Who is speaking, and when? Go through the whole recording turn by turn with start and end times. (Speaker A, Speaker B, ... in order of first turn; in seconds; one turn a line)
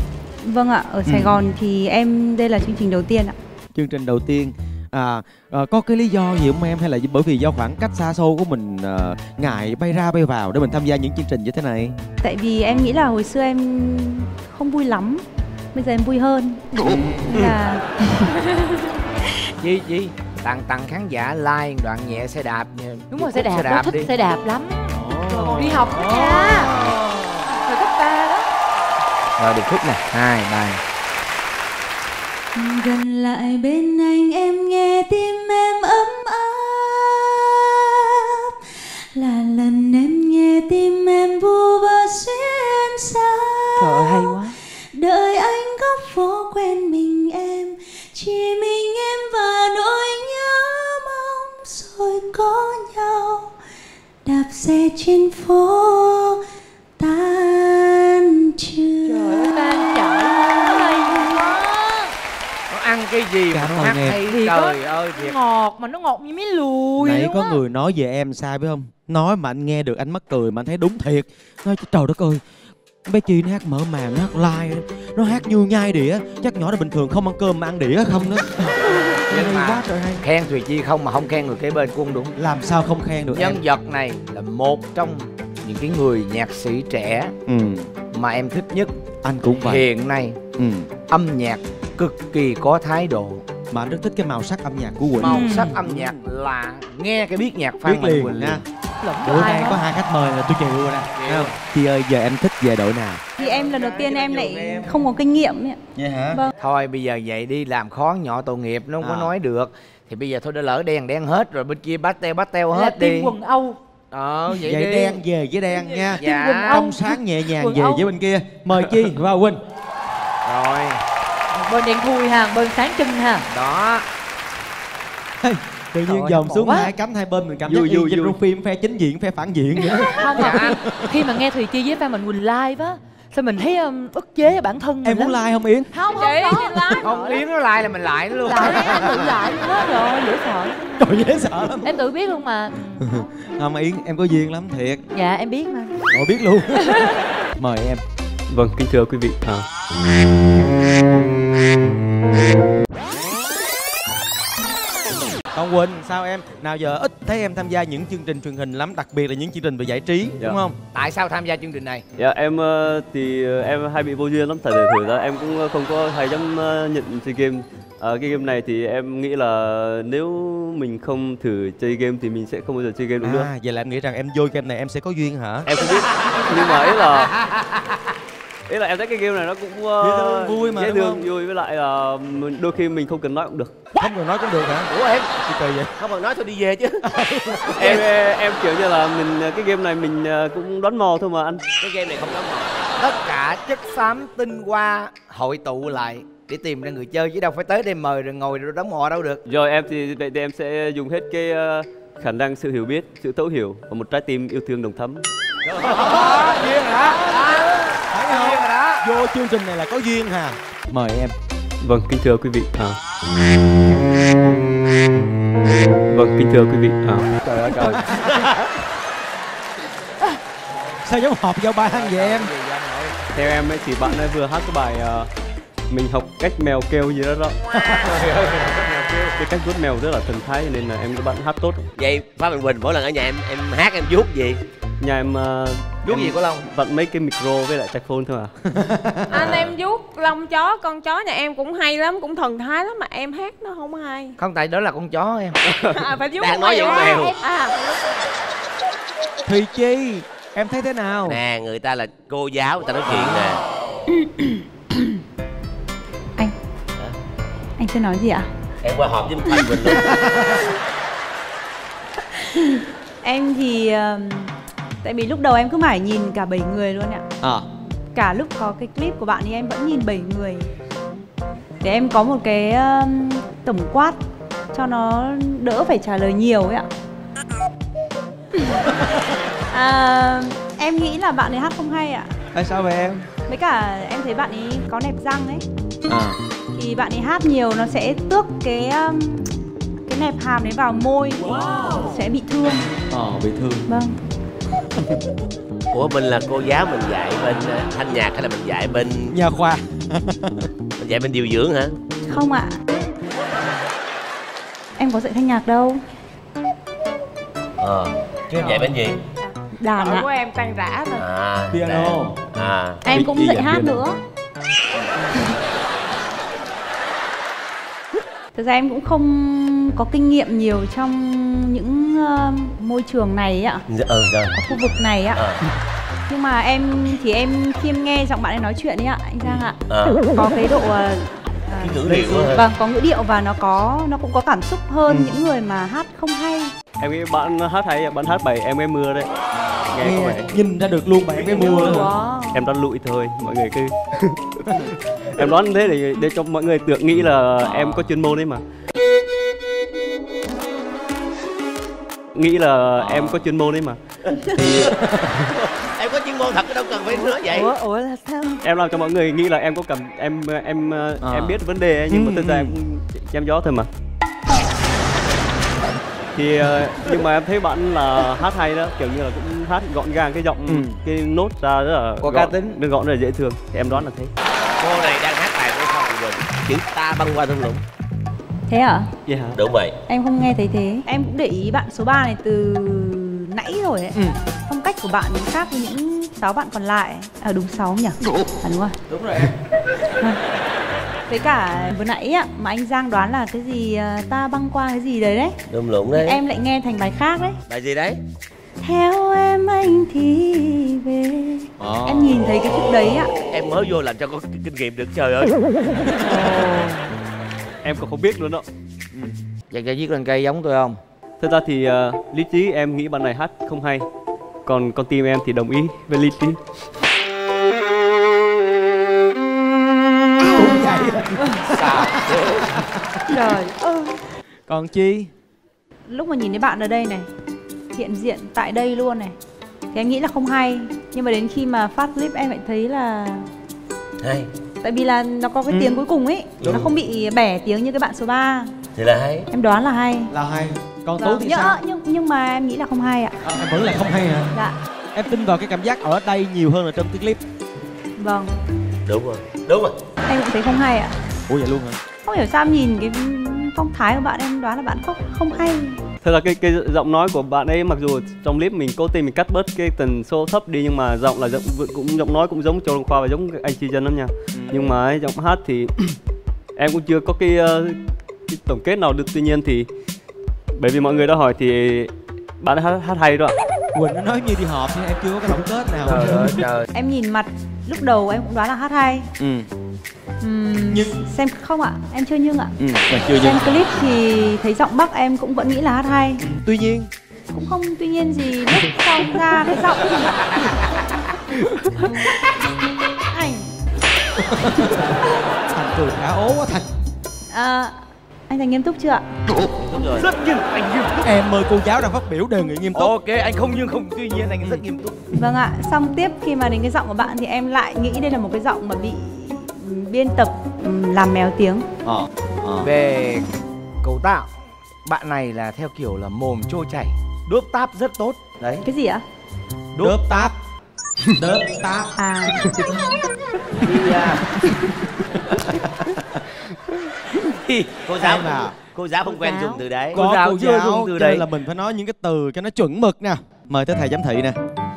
Speaker A: 0.4-3.3
Speaker B: 1.1-1.4
Speaker B: 3.7-12.0
Speaker A: 12.2-15.2
Speaker A: 15.7-18.6
Speaker B: 16.8-17.5
Speaker C: 19.6-24.1
Speaker D: 23.1-26.7
Speaker B: 24.9-27.5
Speaker D: 27.4-28.4
Speaker C: 29.4-30.8
Speaker A: 32.5-38.5
Speaker A: 39.1-53.5
Speaker D: 43.8-44.5
Speaker A: 54.2-56.4
Speaker A: 57.0-61.6
Speaker D: 59.1-62.1
Speaker C: 59.3-59.5
Speaker C: 62.7-65.4
Speaker B: 63.5-64.2
Speaker D: 64.2-67.6
Speaker B: 67.0-72.4
Speaker B: 73.1-80.2
Speaker C: 79.3-82.3
Speaker B: 82.4-83.6
Speaker C: 83.3-87.3
Speaker B: 87.5-87.9
Speaker C: 88.1-88.9
Speaker B: 89.2-89.8
Speaker C: 89.5-90.4
Speaker B: 90.6-90.9
Speaker C: 91.1-93.4
Speaker B: 93.7-96.2
Speaker C: 95.2-98.6
Speaker D: 95.2-95.7
Speaker B: 97.8-98.6
Speaker D: 99.0-99.8
Speaker B: 99.2-103.2
Speaker C: 101.2-101.5
Speaker C: 103.4-104.9
Speaker A: 103.4-105.8
Speaker B: 106.0-106.4
Speaker C: 106.6-113.4
Speaker B: 109.0-109.3
Speaker D: 112.7-113.8
Speaker C: 114.1-115.2
Speaker B: 114.6-119.6
Speaker D: 116.1-118.1
Speaker C: 116.2-116.9
Speaker C: 120.5-121.0
Speaker D: 121.5-123.5
Speaker C: 123.5-124.0
Speaker B: 125.4-131.3
Speaker D: 126.0-126.9
Speaker E: 127.6-128.4
Speaker D: 130.1-135.4
Speaker C: 130.3-130.8
Speaker B: 135.0-135.9
Speaker D: 135.9-137.4
Speaker F: 136.1-137.3
Speaker C: 137.0-139.0
Speaker D: 138.4-140.8
Speaker B: 138.7-139.4
Speaker B: 141.0-142.0
Speaker D: 141.8-143.1
Speaker B: 142.9-145.0
Speaker D: 145.1-146.0
Speaker B: 146.1-148.0
Speaker E: 148.5-149.6
Speaker B: 155.5-160.8
Speaker C: 160.9-162.0
Speaker E: 162.2-173.5
Speaker B: 173.2-175.7
Speaker G: 175.7-176.1
Speaker E: 176.4-177.3
Speaker E: 178.7-183.7
Speaker B: 180.0-181.3
Speaker B: 183.9-185.9
Speaker G: 184.9-185.3
Speaker G: 186.0-187.0
Speaker B: 187.0-187.8
Speaker G: 187.7-188.1
Speaker E: 187.8-191.6
Speaker G: 191.8-192.8
Speaker C: 193.0-199.4
Speaker E: 199.4-205.3
Speaker C: 205.8-209.0
Speaker B: 205.8-207.5
Speaker B: 208.1-211.3
Speaker E: 211.8-212.9
Speaker E: 215.7-217.3
Speaker C: 217.4-218.1
Speaker B: 217.8-218.6
Speaker B: 221.1-222.5
Speaker C: 221.9-223.2
Speaker E: 223.3-225.3
Speaker E: 225.9-227.6
Speaker C: 227.8-229.3
Speaker E: 229.3-231.9
Speaker G: 232.0-234.6
Speaker E: 235.0-238.5
Speaker C: 236.0-236.7
Speaker B: 238.7-239.3
Speaker G: 239.3-239.8
Speaker F: 239.3-244.3
Speaker C: 244.4-245.6
Speaker E: 245.7-246.0
Speaker F: 245.9-248.2
Speaker G: 246.3-247.4
Speaker B: 249.4-251.4
Speaker G: 251.2-253.6
Speaker A: 254.1-255.2
Speaker A: 257.8-258.5
Speaker G: 258.8-260.1
Speaker B: 260.1-260.5
Speaker A: 262.3-267.2
Speaker B: 267.4-267.6
Speaker A: 268.1-270.7
Speaker A: 271.8-274.2
Speaker A: 274.7-276.9
Speaker A: 278.5-278.9
Speaker B: 278.8-279.2
Speaker A: 279.7-282.3
Speaker B: 282.5-283.3
Speaker A: 283.5-285.6
Speaker B: 286.1-286.4
Speaker A: 286.7-289.5
Speaker A: 290.1-292.8
Speaker B: 293.1-293.9
Speaker A: 293.9-294.1
Speaker G: 295.9-299.3
Speaker B: 299.3-300.7
Speaker G: 301.0-302.0
Speaker A: 302.2-302.8
Speaker A: 305.0-306.0
Speaker G: 307.8-309.2
Speaker A: 309.8-310.3
Speaker F: 310.2-311.1
Speaker G: 311.1-313.0
Speaker B: 311.7-312.4
Speaker A: 313.0-314.2
Speaker E: 313.1-313.9
Speaker A: 318.5-323.8
Speaker G: 323.9-324.6
Speaker A: 324.5-325.4
Speaker G: 325.3-325.6
Speaker A: 326.3-336.7
Speaker G: 329.9-330.2
Speaker G: 331.8-332.6
Speaker B: 332.1-332.4
Speaker B: 335.1-335.3
Speaker E: 337.0-339.3
Speaker E: 339.9-340.5
Speaker B: 340.0-342.1
Speaker D: 341.4-342.6
Speaker E: 341.7-348.6
Speaker B: 344.7-344.9
Speaker E: 352.3-354.0
Speaker G: 353.0-353.5
Speaker E: 354.5-354.9
Speaker B: 354.6-355.4
Speaker G: 355.5-357.7
Speaker D: 357.1-358.6
Speaker E: 358.6-363.9
Speaker B: 361.2-361.6
Speaker B: 362.1-362.8
Speaker E: 366.3-374.3
Speaker B: 370.7-371.0
Speaker C: 372.2-372.8
Speaker G: 374.8-377.8
Speaker A: 378.7-379.1
Speaker E: 379.2-379.6
Speaker G: 379.5-379.9
Speaker A: 380.1-388.9
Speaker B: 389.1-389.5
Speaker A: 391.3-395.6
Speaker G: 395.7-396.4
Speaker A: 396.1-397.6
Speaker G: 397.7-398.2
Speaker A: 398.8-403.3
Speaker B: 401.8-402.4
Speaker G: 403.5-405.6
Speaker E: 407.8-408.6
Speaker C: 409.7-411.0
Speaker E: 411.4-414.1
Speaker E: 414.6-416.6
Speaker B: 419.9-423.5
Speaker C: 421.7-422.6
Speaker D: 423.3-424.1
Speaker B: 424.7-425.3
Speaker A: 426.1-427.3
Speaker A: 427.9-429.3
Speaker A: 429.9-433.4
Speaker G: 434.2-434.5
Speaker A: 434.8-438.7
Speaker B: 435.7-436.0
Speaker G: 436.6-436.9
Speaker G: 438.9-439.4
Speaker A: 439.5-440.3
Speaker B: 440.3-441.8
Speaker A: 441.2-443.4
Speaker B: 443.4-444.5
Speaker B: 445.1-447.4
Speaker A: 448.2-448.5
Speaker G: 449.1-449.9
Speaker A: 450.2-451.1
Speaker B: 451.5-452.0
Speaker A: 452.2-456.0
Speaker E: 456.2-466.2
Speaker B: 464.5-464.8
Speaker E: 466.8-469.9
Speaker E: 470.8-473.6
Speaker B: 473.9-476.6
Speaker G: 476.0-476.9
Speaker A: 476.9-479.3
Speaker B: 479.4-479.7
Speaker A: 480.4-482.8
Speaker B: 480.9-481.2
Speaker B: 482.8-483.7
Speaker A: 483.3-486.4
Speaker B: 486.5-487.1
Speaker A: 487.5-490.4
Speaker A: 492.1-492.4
Speaker A: 493.3-493.6
Speaker B: 494.4-495.1
Speaker B: 495.7-496.9
Speaker A: 497.5-497.9
Speaker A: 498.5-499.2
Speaker G: 499.8-500.3
Speaker C: 500.1-501.3
Speaker B: 501.2-503.1
Speaker C: 502.9-505.2
Speaker A: 505.4-511.9
Speaker B: 512.0-512.9
Speaker C: 512.8-513.5
Speaker C: 514.0-514.5
Speaker C: 515.0-518.9
Speaker A: 518.9-519.2
Speaker C: 519.9-520.5
Speaker B: 520.0-520.5
Speaker B: 521.4-522.1
Speaker A: 522.1-522.7
Speaker C: 523.8-524.4
Speaker B: 525.5-526.4
Speaker G: 527.5-530.2
Speaker B: 528.2-528.7
Speaker D: 529.3-529.8
Speaker C: 530.1-531.5
Speaker B: 530.1-534.6